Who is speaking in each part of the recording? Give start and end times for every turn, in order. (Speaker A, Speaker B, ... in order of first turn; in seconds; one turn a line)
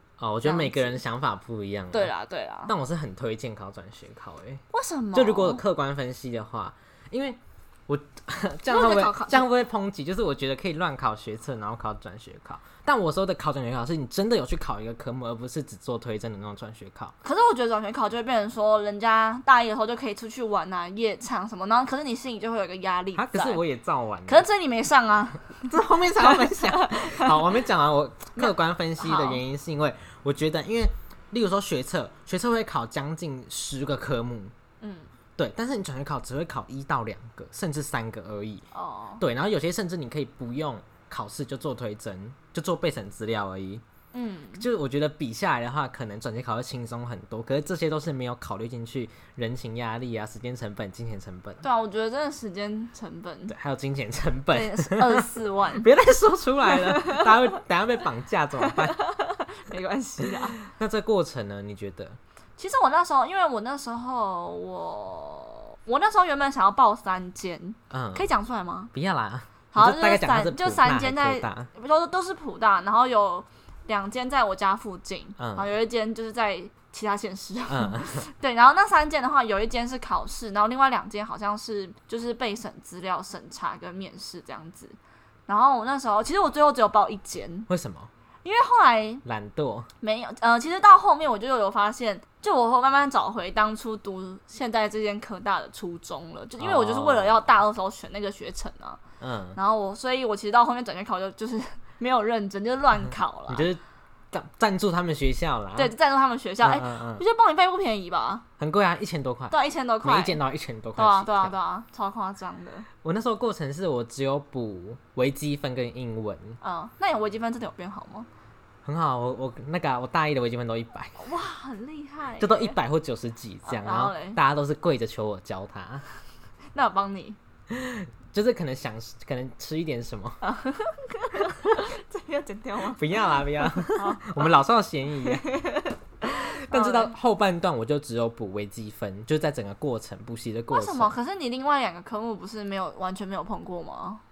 Speaker A: 0.2-2.1
Speaker B: 0.4-1.0
Speaker B: 1.9-2.7
Speaker A: 2.7-4.6
Speaker B: 4.7-5.6
Speaker A: 5.1-17.1
Speaker B: 8.7-9.5
Speaker B: 17.2-23.6
Speaker A: 23.1-24.4
Speaker B: 24.3-27.4
Speaker A: 25.6-34.5
Speaker B: 28.4-29.4
Speaker B: 34.8-35.1
Speaker A: 35.4-38.6
Speaker B: 38.7-39.2
Speaker A: 39.2-43.8
Speaker B: 44.1-44.6
Speaker A: 44.5-51.6
Speaker B: 51.6-53.5
Speaker A: 53.5-59.0
Speaker B: 54.5-55.9
Speaker B: 56.7-57.4
Speaker B: 58.6-60.6
Speaker A: 60.2-62.2
Speaker B: 62.6-68.9
Speaker A: 67.9-68.3
Speaker A: 68.9-71.7
Speaker B: 69.7-85.0
Speaker A: 75.4-75.7
Speaker A: 77.7-78.2
Speaker B: 85.5-87.7
Speaker A: 87.7-88.1
Speaker B: 88.4-89.2
Speaker A: 89.2-89.9
Speaker B: 90.0-99.0
Speaker A: 96.6-97.4
Speaker A: 99.2-99.6
Speaker B: 99.5-103.7
Speaker A: 103.5-103.8
Speaker A: 104.3-105.9
Speaker B: 105.8-108.4
Speaker A: 106.6-107.2
Speaker A: 108.6-111.5
Speaker B: 109.5-110.4
Speaker B: 111.0-112.9
Speaker A: 113.0-116.6
Speaker B: 116.6-118.3
Speaker A: 118.8-121.2
Speaker B: 121.2-122.8
Speaker A: 122.4-126.0
Speaker B: 123.6-124.4
Speaker B: 126.7-127.4
Speaker A: 127.7-130.4
Speaker B: 130.4-134.5
Speaker A: 132.9-135.5
Speaker B: 135.2-137.1
Speaker A: 136.3-141.1
Speaker B: 140.7-144.2